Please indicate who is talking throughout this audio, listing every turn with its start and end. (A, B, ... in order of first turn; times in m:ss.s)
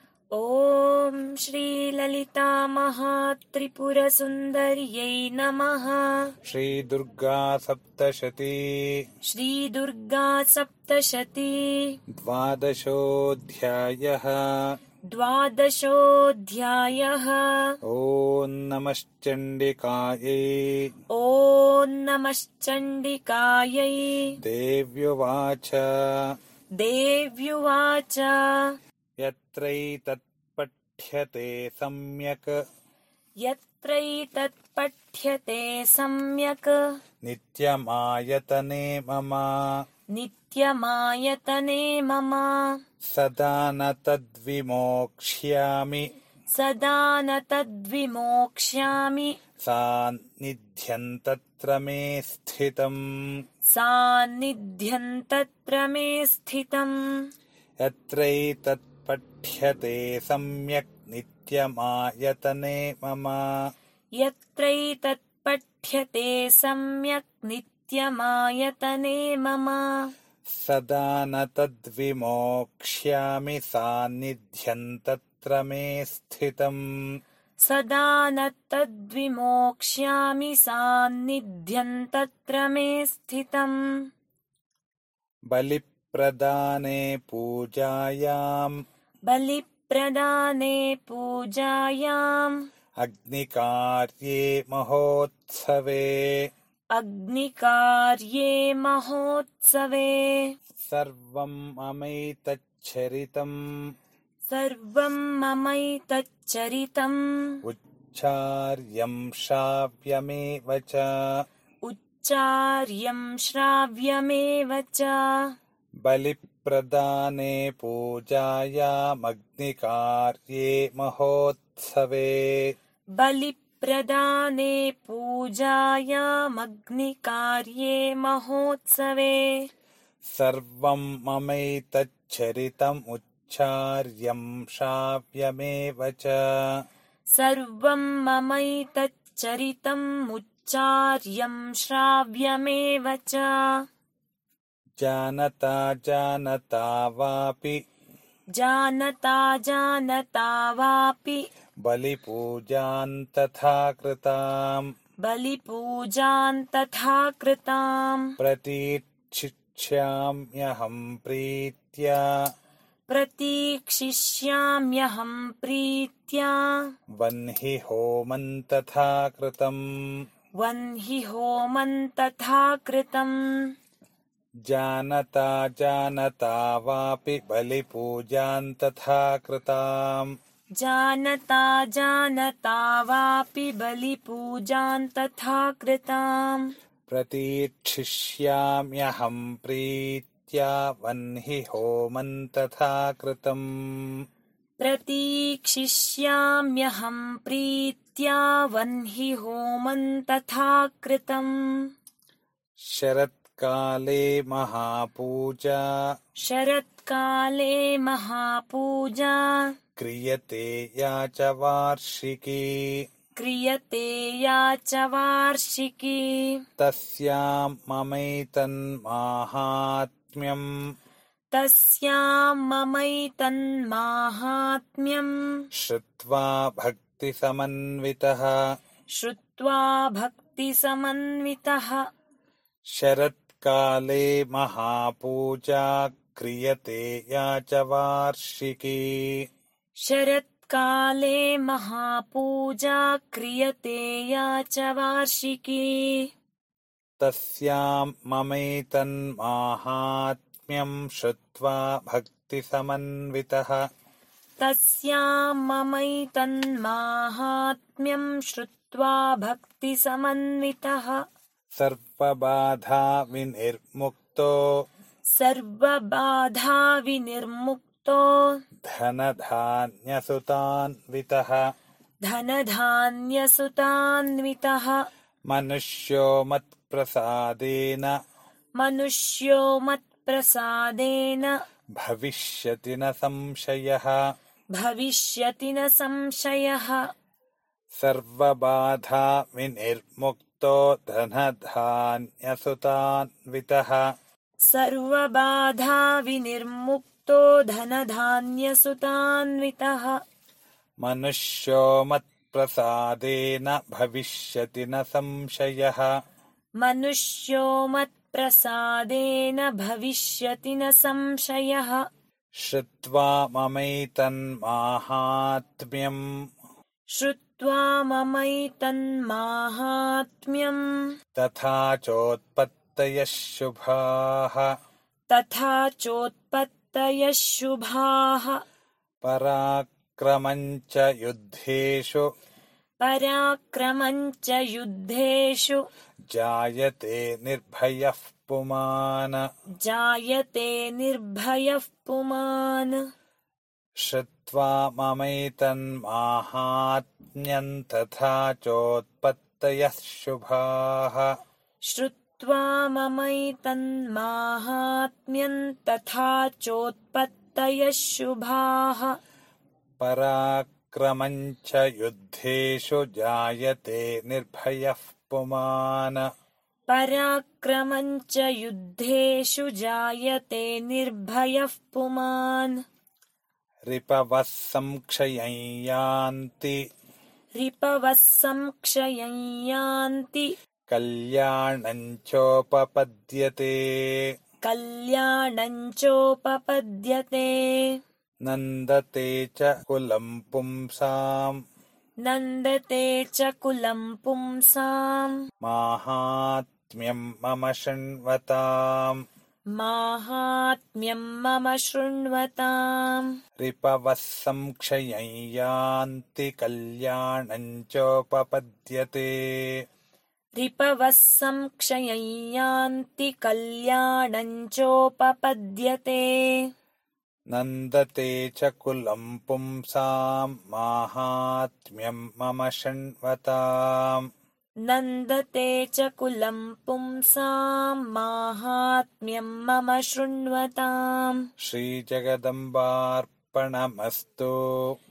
0:00.3-0:06.4 A
0:06.4-0:09.1 B
0:09.2-0:12.0 A
0:12.1-0:14.8 B
0:15.1-0:17.8 A
0:17.8-0:21.0 B
0:21.1-0:24.4 A
0:24.4-0:26.3 B
0:26.8-0:28.8 A
0:29.2-0:32.5 B
0:33.4-0:36.8 A
0:37.2-0:39.8 B
0:40.1-0:42.8 A
0:43.1-0:46.1 B
0:46.5-0:49.4 A
0:49.6-0:53.0 B
0:53.7-0:57.3 A
0:57.8-1:03.7 B
1:04.2-1:10.1 A
1:10.5-1:16.8 B
1:17.6-1:23.8 A
1:25.5-1:28.8 B
1:29.3-1:32.7 A
1:33.0-1:36.5 B
1:36.9-1:40.6 A
1:40.8-1:43.7 B
1:44.5-1:47.6 A
1:47.6-1:51.3 B
1:51.8-1:55.6 A
1:56.0-2:02.8 B
2:03.2-2:09.7 A
2:10.2-2:16.8 B
2:17.3-2:23.9 A
2:25.0-2:27.8 B
2:28.5-2:31.4 A
2:31.8-2:34.9 B
2:35.2-2:38.4 A
2:38.4-2:42.5 B
2:43.1-2:46.9 A
2:47.2-2:50.3 B
2:50.6-2:53.7 A
2:54.7-3:00.3 B
3:00.8-3:06.7 A
3:07.1-3:14.2 B
3:14.8-3:21.9 A
3:22.8-3:26.0 B
3:26.4-3:29.7 A
3:30.0-3:33.0 B
3:33.4-3:36.6 A
3:36.8-3:40.7 B
3:41.5-3:45.6 A
3:45.7-3:48.6 B
3:49.2-3:52.1 A
3:52.9-3:59.5 B
4:00.0-4:06.3 A
4:07.2-4:13.8 B
4:14.6-4:21.2 A
4:21.8-4:24.6 B
4:25.3-4:28.6 A
4:28.8-4:31.6 B
4:32.2-4:35.0 A
4:35.5-4:38.2 B
4:38.8-4:41.6 A
4:42.0-4:44.2 B
4:44.7-4:47.0 A
4:48.0-4:54.0 B
4:54.7-5:00.2 A
5:01.0-5:06.1 B
5:06.8-5:12.0 A
5:12.6-5:16.2 B
5:17.1-5:21.2 A
5:21.4-5:24.7 B
5:25.3-5:28.6 A
5:29.2-5:32.3 B
5:33.0-5:35.8 A
5:36.3-5:39.4 B
5:39.8-5:43.0 A
5:44.0-5:51.3 B
5:51.9-5:59.2 A
6:00.0-6:06.2 B
6:06.9-6:12.8 A
6:13.9-6:16.8 B
6:17.6-6:20.5 A
6:20.9-6:24.3 B
6:24.6-6:28.0 A
6:28.5-6:31.6 B
6:32.2-6:35.4 A
6:35.6-6:39.2 B
6:39.8-6:43.4 A
6:43.6-6:49.8 B
6:50.6-6:56.7 A
6:57.5-7:04.3 B
7:04.8-7:11.5 A
7:11.6-7:15.0 B